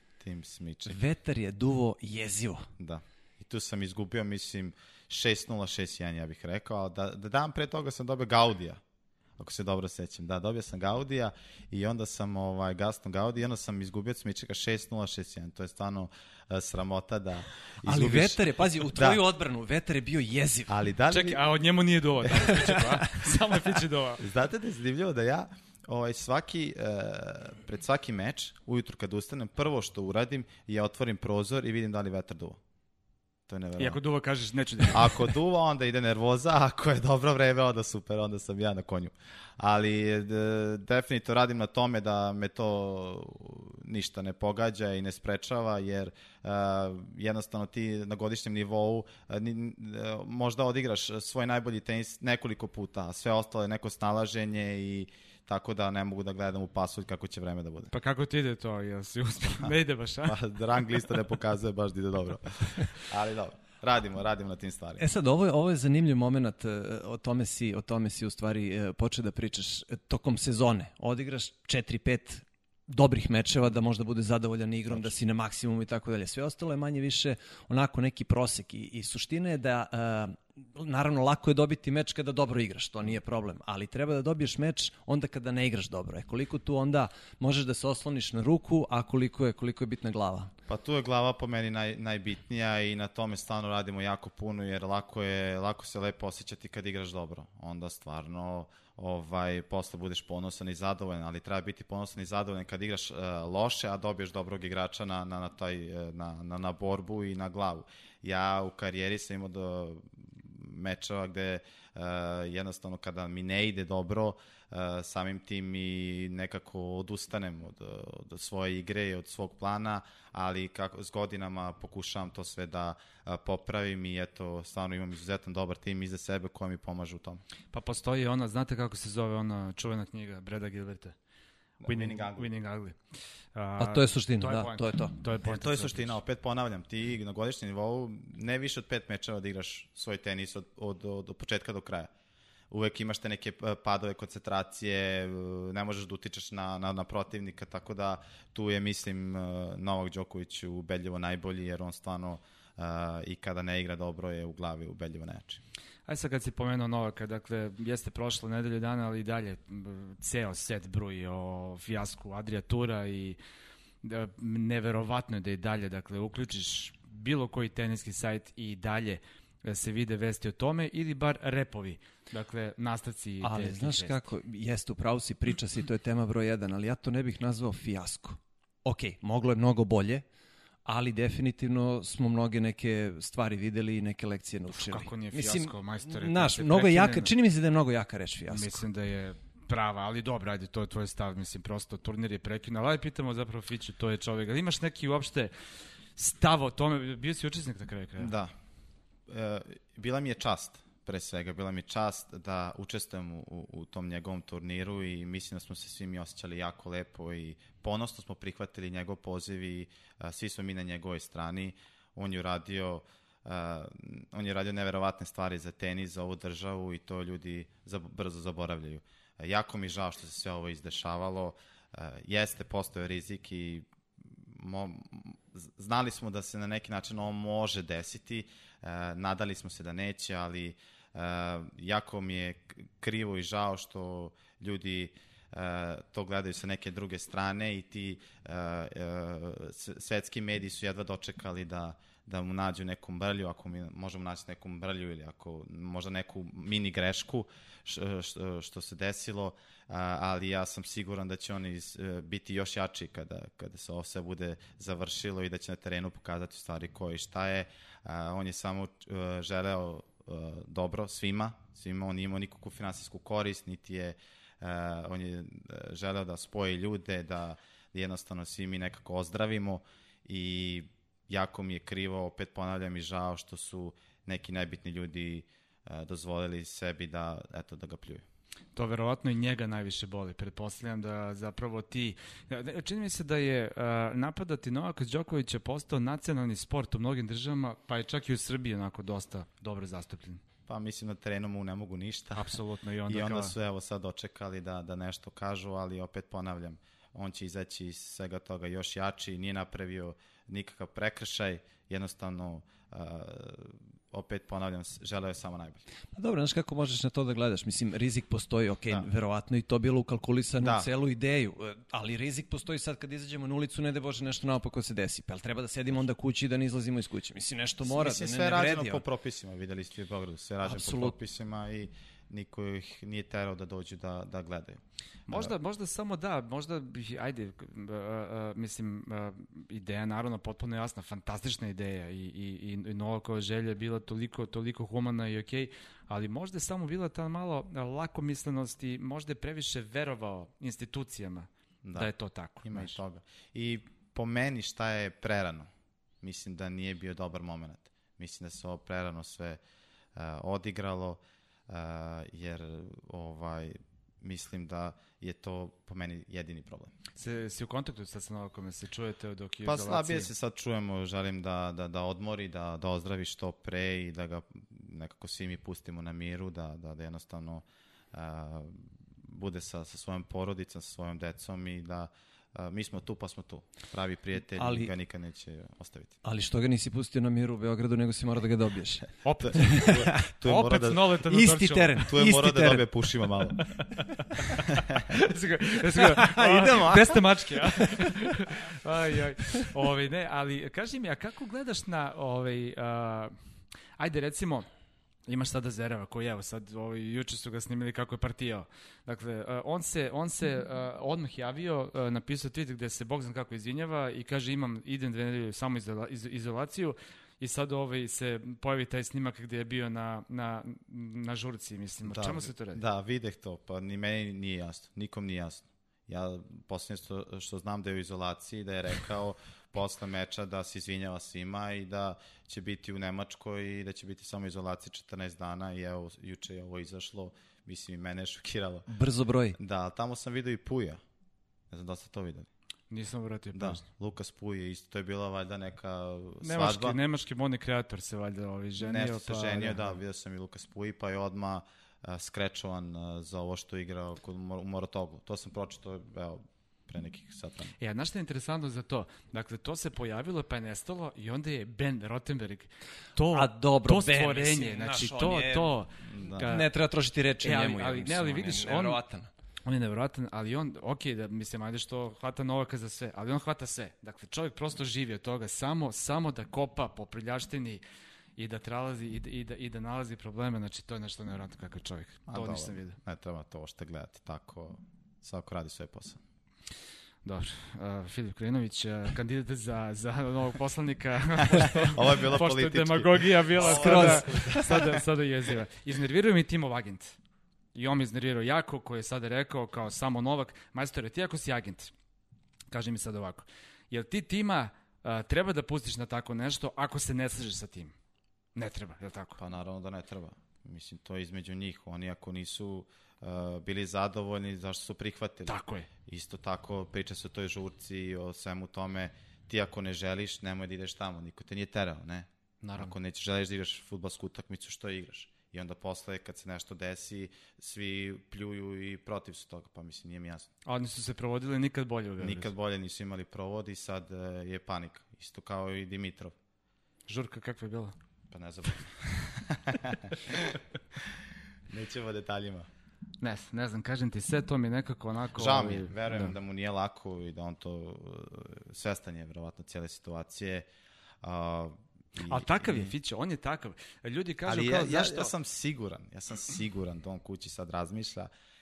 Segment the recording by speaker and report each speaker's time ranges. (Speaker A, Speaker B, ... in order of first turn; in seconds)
Speaker A: 0.2-1.0, 2.8-8.8, 9.4-19.2, 20.7-21.4, 24.2-32.6, 33.5-34.0, 34.9-57.9, 60.2-65.0, 90.7-127.4, 131.8-132.5, 135.4-142.1, 142.7-155.6, 198.2-198.5, 199.3-278.2, 290.7-292.5, 293.1-305.8, 310.6-310.9, 317.9-325.5, 341.8-345.7, 346.2-349.6, 350.1-356.9, 359.6-376.2, 379.4-381.1, 382.1-383.8, 386.6-387.0, 412.1-428.9, 429.6-431.0, 431.7-432.5, 433.5-437.0, 438.8-447.7, 456.1-456.5, 472.3-476.2, 481.5-484.9, 499.4-520.5, 522.2-526.3, 528.3-532.7, 535.3-540.7, 541.2-542.9, 544.5-548.3
Speaker B: 0.9-2.7, 17.8-20.7, 65.0-90.5, 133.8-135.2, 173.4-180.2, 180.8-188.8, 306.1-319.0, 320.6-321.1, 374.6-374.9, 376.2-380.3, 381.2-382.9, 386.0-388.0, 428.9-429.6, 453.3-455.7, 456.4-459.3, 483.6-484.9
Speaker C: 21.1-24.2, 33.8-35.3, 57.9-60.4, 127.7-131.1, 131.8-133.0, 133.5-136.2, 156.1-163.4, 164.0-174.2, 184.7-187.3, 188.5-195.5, 196.2-198.3, 278.7-290.4, 292.3-293.5, 325.3-343.0, 357.1-360.3, 379.2-382.1, 383.8-393.4, 394.0-394.7, 395.3-412.8, 432.9-433.8, 436.4-439.9, 447.8-456.7, 457.4-459.0, 459.6-467.8, 468.4-473.0, 477.2-487.2, 487.7-491.9, 492.7-497.9, 498.5-499.4, 505.5-505.9, 512.6-512.9, 520.6-522.5, 527.1-527.9, 533.2-536.3, 542.2-545.3